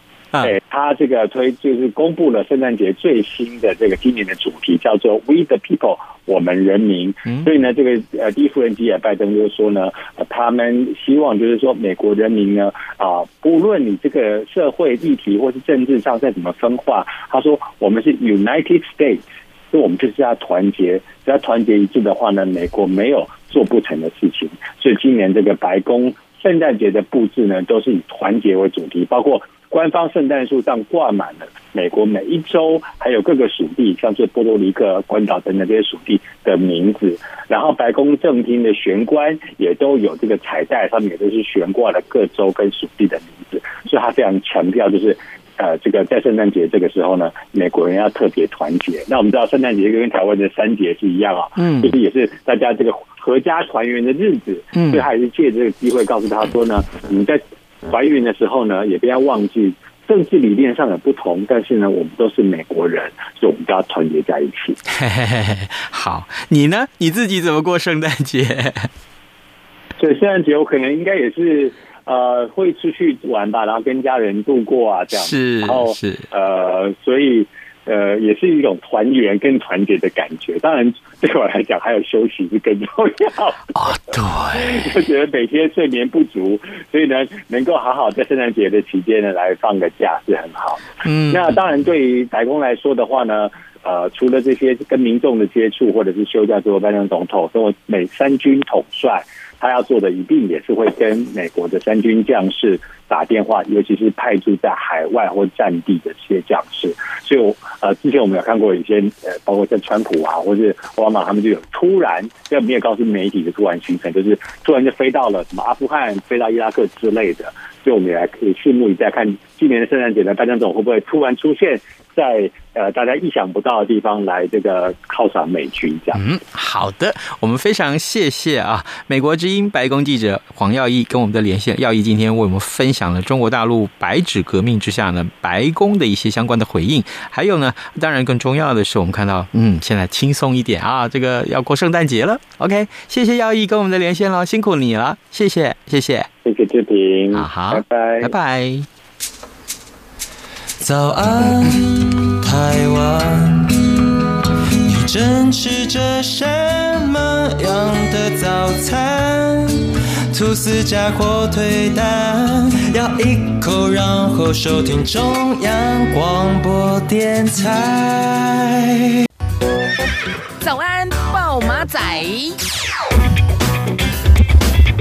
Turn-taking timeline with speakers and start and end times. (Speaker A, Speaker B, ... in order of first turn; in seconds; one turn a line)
Speaker A: 0.4-64.8
Speaker B: 51.6-51.9
Speaker B: 54.7-55.0
Speaker B: 64.9-68.9
Speaker A: 70.0-126.2
Speaker B: 75.1-76.3
Speaker B: 83.7-84.9
Speaker B: 91.0-91.6
Speaker B: 126.1-146.3
Speaker A: 146.4-148.3
Speaker B: 147.3-148.9
Speaker C: 150.8-154.0
Speaker C: 154.8-169.2
Speaker D: 170.6-172.6